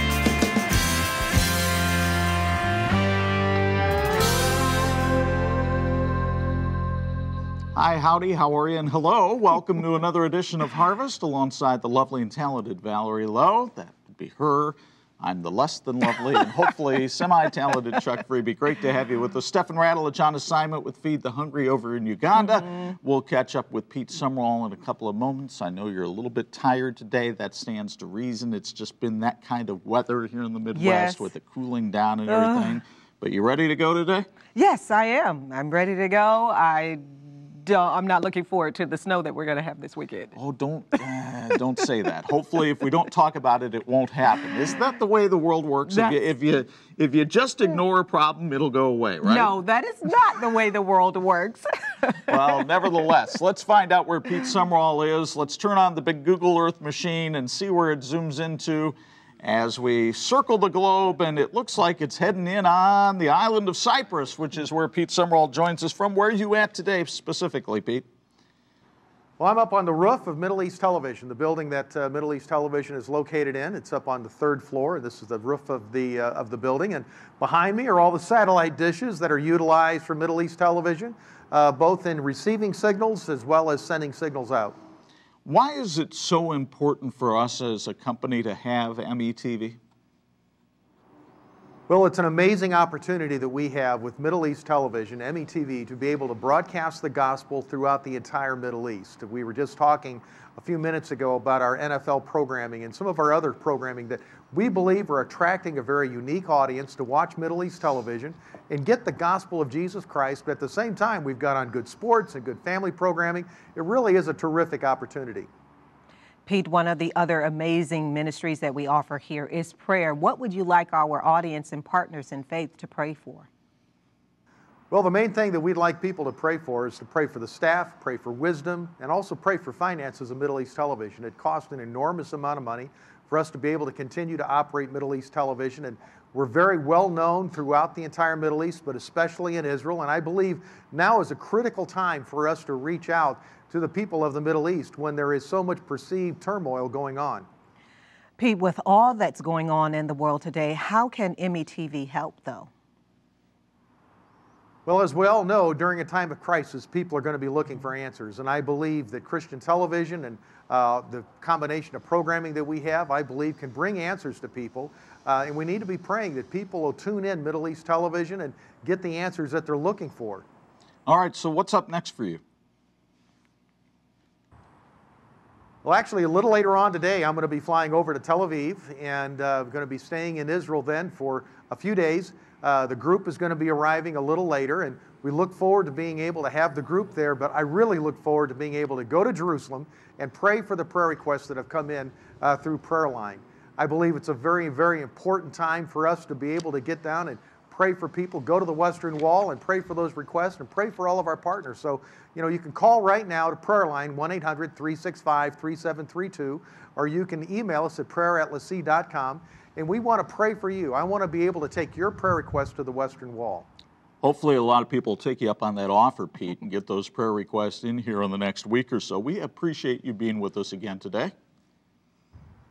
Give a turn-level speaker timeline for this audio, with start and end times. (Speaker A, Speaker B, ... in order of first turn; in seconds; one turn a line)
Speaker A: 7.8-34.3
Speaker B: 22.6-22.9
Speaker B: 30.7-31.3
Speaker B: 32.3-32.8
Speaker B: 34.5-40.4
Speaker A: 40.4-49.6
Speaker B: 45.9-46.2
Speaker B: 49.2-53.1
Speaker A: 52.3-68.0
Speaker C: 69.4-84.8
Speaker A: 85.5-89.8
Speaker C: 91.9-115.5
Speaker B: 116.5-123.5
Speaker C: 124.9-147.5
Speaker B: 148.4-152.7
Speaker C: 154.9-170.4
Speaker A: 171.1-172.4
Speaker C: 175.8-213.7
Speaker A: 214.2-221.3